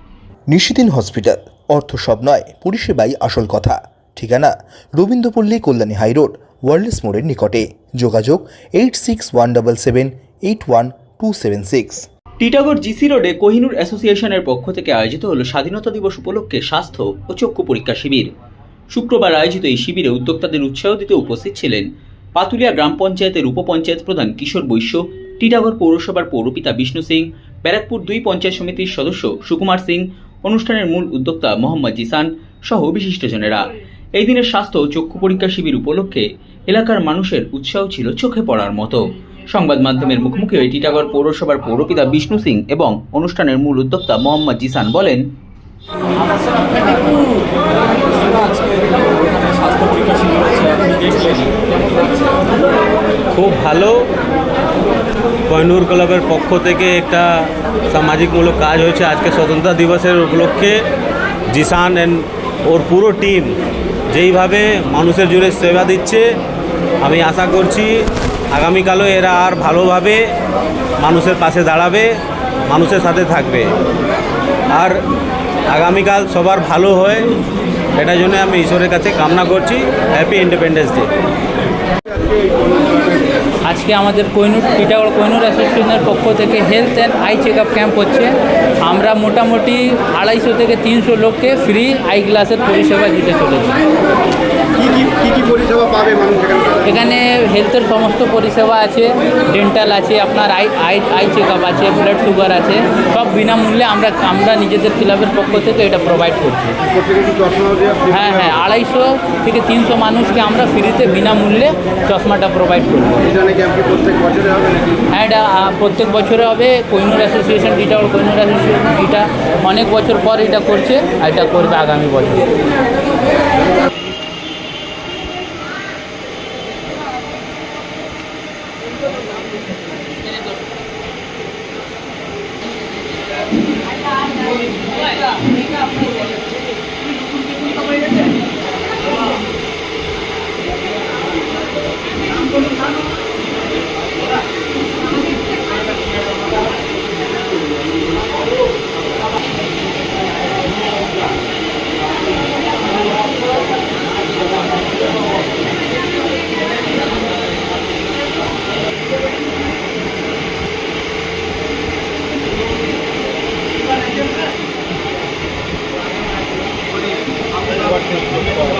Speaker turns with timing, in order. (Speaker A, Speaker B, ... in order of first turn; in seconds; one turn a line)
Speaker A: 0.5-12.1
Speaker B: 12.4-18.3
Speaker B: 18.9-45.2
Speaker C: 49.6-51.3
Speaker C: 53.3-53.9
Speaker C: 55.5-60.8
Speaker C: 61.5-63.5
Speaker C: 64.1-66.2
Speaker C: 67.0-67.9
Speaker C: 68.5-70.2
Speaker C: 71.0-72.1
Speaker C: 72.7-73.7
Speaker C: 75.7-77.3
Speaker C: 78.0-81.1
Speaker D: 82.2-83.3
Speaker E: 83.7-93.8
Speaker D: 94.8-96.8
Speaker E: 96.8-106.8
Speaker D: 106.9-108.1
Speaker E: 108.1-113.3
Speaker D: 113.3-115.0
Speaker E: 115.1-122.5
Speaker D: 168.2-168.4